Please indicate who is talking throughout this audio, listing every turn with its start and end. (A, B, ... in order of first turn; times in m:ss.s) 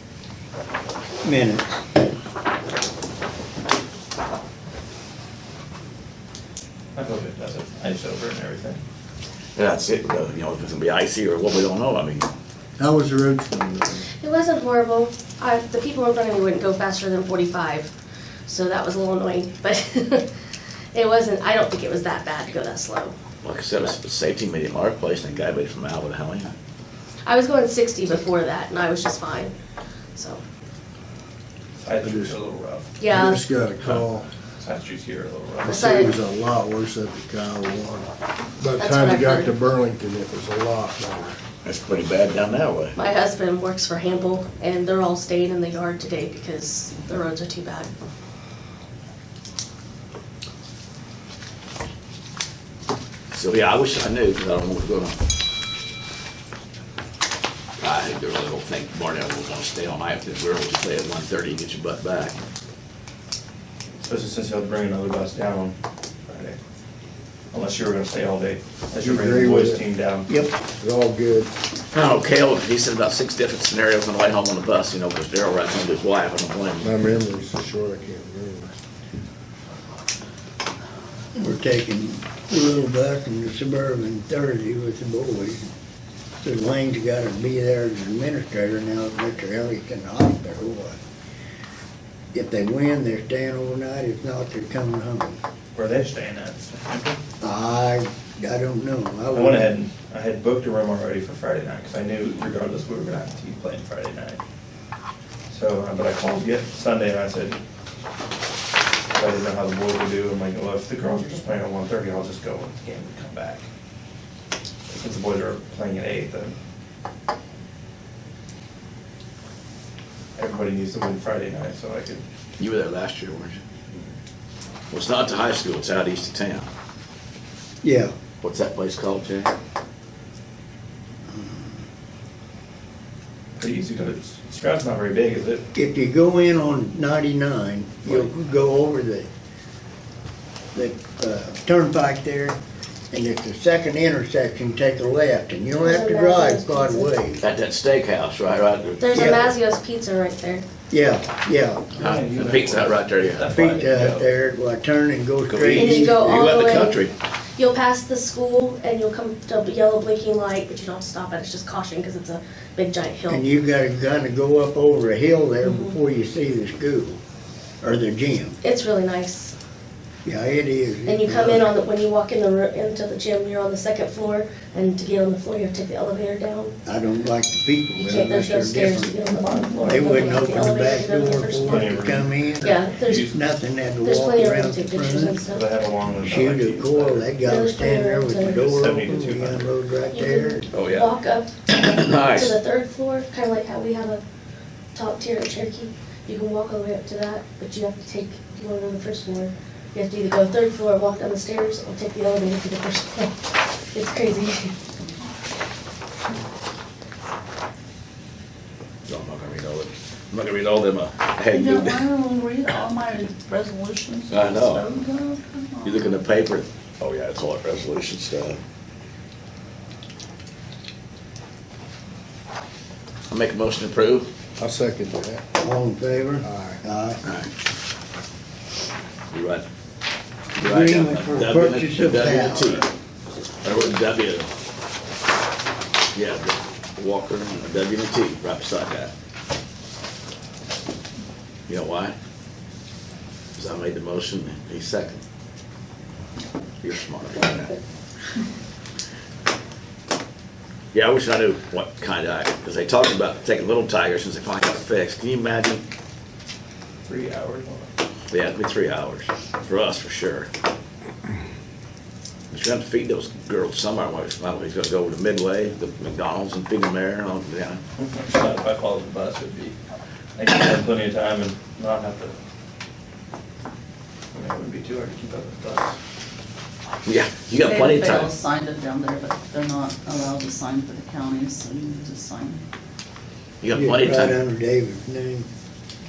0:01.2-0:01.7 A
0:06.9-0:08.8 B
0:09.6-0:12.2 C
0:12.8-0:14.0 D
0:14.2-0:17.9 E
0:18.4-0:20.3 E
0:20.9-0:23.1 E
0:23.4-0:26.5 C
0:27.2-0:29.5 E
0:30.1-0:30.4 E
0:31.8-0:33.0 B
0:32.0-0:32.4 D
0:33.0-0:33.4 E
0:33.1-0:34.3 D
0:34.6-0:35.8 B
0:35.6-0:38.0 D
0:35.7-0:36.1 E
0:38.6-0:41.4 D
0:38.8-0:39.5 E
0:41.6-0:42.9 C
0:42.9-0:47.9 E
0:53.3-0:55.2 C
0:57.8-1:02.4 C
1:04.0-1:05.8 B
1:06.3-1:06.6 B
1:07.5-1:10.3 B
1:09.0-1:09.9 D
1:10.3-1:10.6 A
1:10.8-1:11.5 D
1:11.9-1:17.0 C
1:16.8-1:18.7 D
1:21.4-1:25.7 A
1:26.4-1:31.0 A
1:32.3-1:35.4 A
1:35.7-1:37.2 B
1:37.4-1:39.7 A
1:39.3-1:44.4 B
1:45.5-1:47.6 B
1:49.1-1:53.6 B
1:54.9-1:56.6 B
2:00.4-2:02.2 B
2:02.6-2:03.6 C
2:04.9-2:06.7 C
2:07.8-2:08.1 A
2:08.4-2:09.5 C
2:11.3-2:11.8 A
2:13.6-2:15.6 B
2:15.7-2:19.3 A
2:18.0-2:18.3 C
2:20.7-2:22.6 A
2:23.1-2:27.4 A
2:25.8-2:27.1 E
2:27.4-2:29.5 C
2:29.0-2:30.6 E
2:29.1-2:29.5 A
2:30.9-2:31.9 A
2:32.0-2:33.5 C
2:32.0-2:34.3 B
2:33.5-2:36.4 A
2:35.5-2:37.1 C
2:35.7-2:37.0 E
2:37.6-2:43.4 E
2:43.3-2:47.2 A
2:45.6-2:45.9 E
2:47.8-2:48.6 A
2:48.6-2:49.5 E
2:50.2-2:51.7 A
2:51.0-2:56.8 E
2:56.8-2:59.1 A
2:58.0-3:01.9 E
2:59.3-3:00.2 B
2:59.9-3:05.4 A
3:01.6-3:03.4 B
3:02.6-3:03.3 E
3:04.0-3:05.6 E
3:05.4-3:07.3 B
3:06.2-3:10.6 A
3:07.4-3:08.6 E
3:08.5-3:09.7 B
3:10.1-3:14.2 E
3:10.7-3:11.1 C
3:11.7-3:12.6 C
3:14.9-3:23.3 E
3:23.9-3:24.7 E
3:29.1-3:32.1 C
3:31.5-3:36.2 F
3:34.3-3:34.9 C
3:35.8-3:38.6 C
3:43.3-3:44.3 C
3:44.6-3:45.4 D
3:45.6-3:47.2 A
3:46.4-3:46.8 D
3:47.2-3:47.5 C
3:49.3-3:49.6 C
3:50.6-3:52.9 A
3:50.6-3:52.9 C
3:53.6-3:54.5 C
3:56.1-3:59.1 C
4:01.7-4:02.2 C
4:03.6-4:05.2 C
4:06.8-4:07.8 C
4:10.9-4:15.8 C
4:17.0-4:17.9 B
4:18.3-4:20.5 C
4:22.5-4:27.8 C
4:28.0-4:29.8 B
4:30.4-4:32.4 B
4:34.3-4:36.0 B
4:37.0-4:38.3 C
4:37.6-4:42.6 F
4:43.6-4:44.4 C
4:43.7-4:45.5 A